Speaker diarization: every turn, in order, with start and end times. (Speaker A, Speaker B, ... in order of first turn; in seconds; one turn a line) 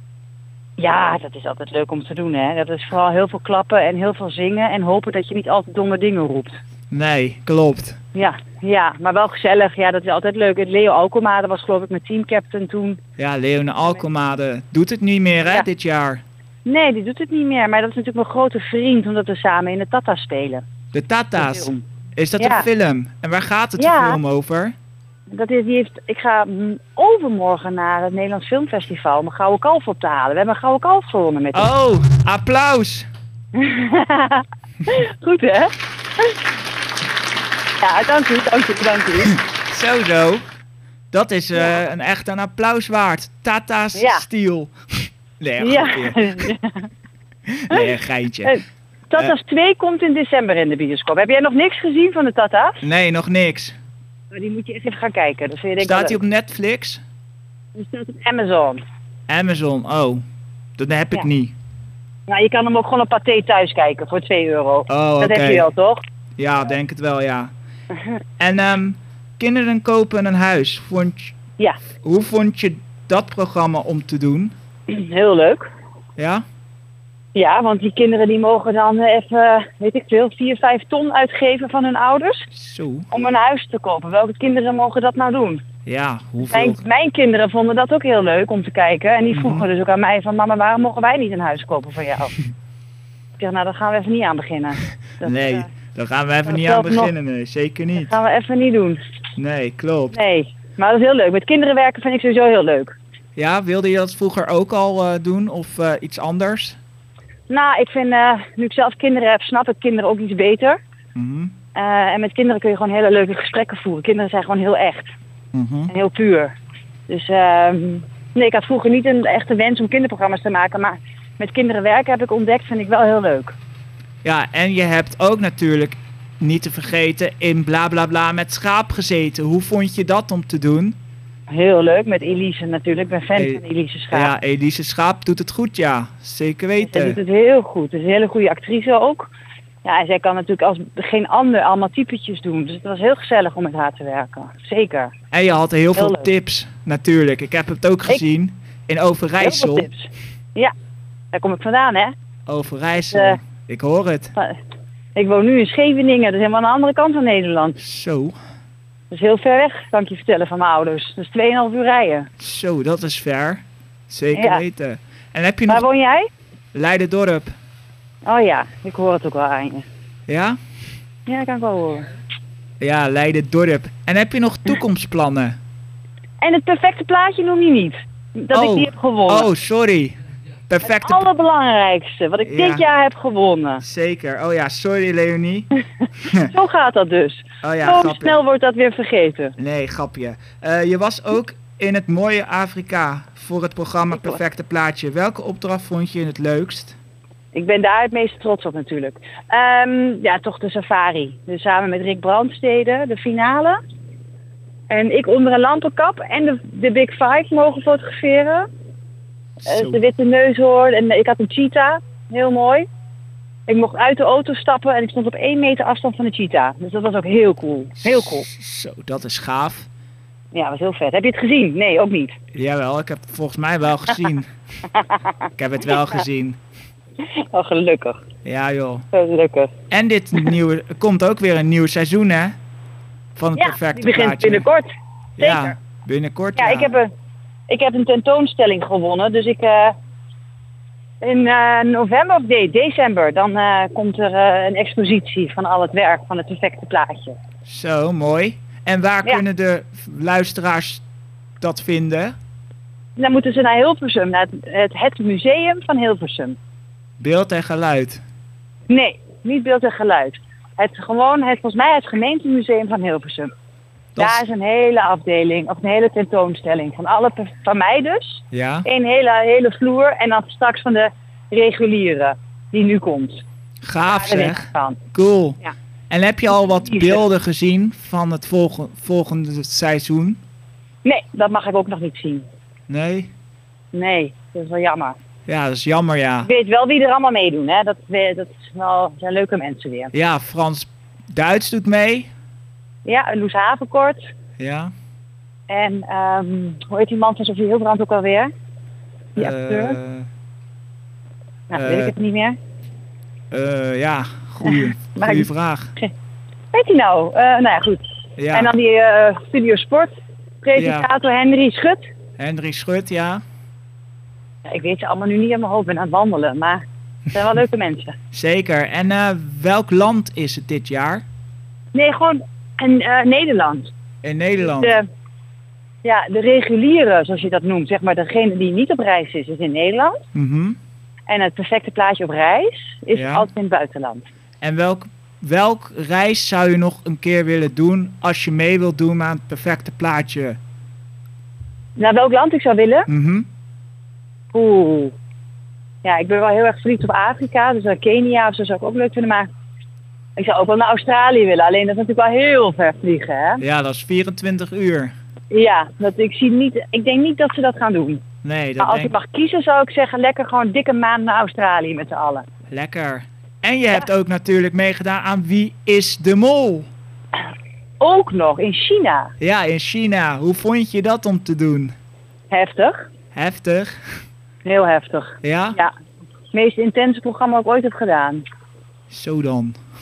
Speaker A: 0.8-6.5
Speaker B: 6.9-8.0
Speaker A: 8.2-13.0
Speaker B: 13.2-16.2
Speaker A: 16.6-20.6
Speaker B: 20.9-24.7
Speaker A: 21.4-21.9
Speaker A: 22.4-22.7
Speaker A: 23.8-24.2
Speaker A: 25.3-31.7
Speaker B: 31.5-33.1
Speaker A: 33.5-36.4
Speaker A: 37.8-39.4
Speaker B: 39.7-40.4
Speaker B: 41.1-44.7
Speaker A: 44.0-44.2
Speaker B: 45.4-46.4
Speaker A: 45.6-46.9
Speaker B: 47.5-48.6
Speaker A: 48.4-52.8
Speaker B: 52.8-53.8
Speaker A: 54.3-56.2
Speaker B: 55.8-57.0
Speaker A: 57.8-58.8
Speaker B: 59.3-60.2
Speaker B: 60.8-61.5
Speaker A: 62.3-66.0
Speaker B: 64.9-65.7
Speaker B: 66.4-67.5
Speaker B: 68.4-71.4
Speaker B: 72.0-74.5
Speaker A: 74.9-75.7
Speaker B: 76.2-76.4
Speaker A: 77.3-82.5
Speaker B: 82.5-83.1
Speaker A: 83.1-85.6
Speaker B: 85.9-86.8
Speaker A: 86.5-92.4
Speaker B: 89.3-89.7
Speaker A: 93.4-95.7
Speaker B: 95.2-98.2
Speaker A: 96.5-97.1
Speaker A: 98.0-99.0
Speaker B: 99.4-100.2
Speaker A: 100.1-103.0
Speaker B: 103.4-106.8
Speaker A: 107.5-110.8
Speaker B: 111.2-111.5
Speaker A: 111.7-115.1
Speaker B: 115.5-115.9
Speaker A: 115.9-116.5
Speaker A: 117.1-123.5
Speaker B: 124.2-131.0
Speaker A: 131.5-134.3
Speaker B: 133.4-133.6
Speaker B: 134.1-137.2
Speaker A: 136.8-139.3
Speaker A: 139.8-145.1
Speaker B: 145.3-149.9
Speaker A: 146.0-146.3
Speaker A: 149.4-150.7
Speaker A: 151.3-152.1
Speaker B: 152.5-154.3
Speaker A: 153.1-153.4
Speaker A: 155.2-157.8
Speaker B: 157.8-158.3
Speaker A: 159.1-162.3
Speaker B: 162.4-165.8
Speaker A: 164.3-164.6
Speaker A: 165.7-166.3
Speaker B: 166.7-167.5
Speaker A: 168.2-169.9
Speaker B: 170.3-170.6
Speaker A: 171.3-172.1
Speaker B: 172.8-175.6
Speaker A: 176.4-179.5
Speaker B: 178.5-180.2
Speaker B: 180.7-181.3
Speaker A: 180.8-183.8
Speaker B: 182.4-182.8
Speaker B: 183.8-185.7
Speaker A: 186.3-189.6
Speaker B: 187.6-188.4
Speaker B: 189.6-197.0
Speaker A: 194.1-194.4
Speaker A: 197.5-203.8
Speaker A: 204.9-208.7
Speaker B: 209.6-210.0
Speaker A: 209.7-212.9
Speaker A: 213.7-218.5
Speaker B: 218.0-219.9
Speaker A: 220.5-222.3
Speaker B: 222.5-224.5
Speaker A: 224.9-225.2
Speaker B: 225.6-226.6
Speaker A: 227.4-228.2
Speaker B: 228.4-229.1
Speaker A: 229.1-229.7
Speaker B: 229.9-232.6
Speaker B: 233.4-234.7
Speaker A: 233.6-234.9
Speaker B: 235.4-236.9
Speaker A: 235.4-235.7
Speaker A: 236.6-237.1
Speaker A: 237.7-239.9
Speaker A: 241.2-247.4
Speaker B: 247.7-251.0
Speaker B: 251.6-252.3
Speaker A: 253.2-256.6
Speaker B: 257.2-258.2
Speaker A: 258.9-263.5
Speaker B: 264.2-264.4
Speaker A: 264.2-273.4
Speaker B: 268.5-268.9
Speaker B: 273.8-275.6
Speaker A: 274.1-275.0
Speaker B: 276.1-280.4
Speaker A: 276.5-277.2
Speaker A: 281.0-282.5
Speaker B: 282.9-283.3
Speaker A: 283.9-285.2
Speaker B: 285.5-286.5
Speaker A: 286.4-290.1
Speaker B: 290.1-292.3
Speaker A: 293.1-294.2
Speaker B: 294.6-294.9
Speaker A: 295.7-298.5
Speaker B: 299.4-300.3
Speaker A: 299.4-300.0
Speaker A: 301.7-302.6
Speaker B: 301.7-302.1
Speaker B: 303.5-305.9
Speaker A: 304.6-306.1
Speaker A: 306.7-312.0
Speaker B: 308.4-308.7
Speaker B: 310.8-311.1
Speaker B: 312.4-313.4
Speaker A: 314.7-318.1
Speaker B: 318.3-321.2
Speaker A: 321.9-323.9
Speaker B: 324.2-325.0
Speaker A: 324.6-325.1
Speaker A: 326.0-330.2
Speaker B: 330.3-330.8
Speaker A: 331.3-334.2
Speaker B: 333.1-333.5
Speaker B: 334.6-340.6
Speaker A: 342.0-343.1
Speaker B: 343.1-343.5
Speaker A: 344.5-345.1
Speaker A: 346.0-349.5
Speaker A: 350.4-353.6
Speaker B: 353.6-355.1
Speaker A: 355.5-358.2
Speaker B: 358.4-359.1
Speaker A: 358.8-362.4
Speaker B: 362.7-366.9
Speaker A: 368.0-369.3
Speaker B: 369.4-371.9
Speaker A: 372.5-373.1
Speaker B: 373.3-374.0
Speaker A: 374.6-375.9
Speaker B: 375.4-375.8
Speaker A: 376.5-378.4
Speaker B: 379.1-379.8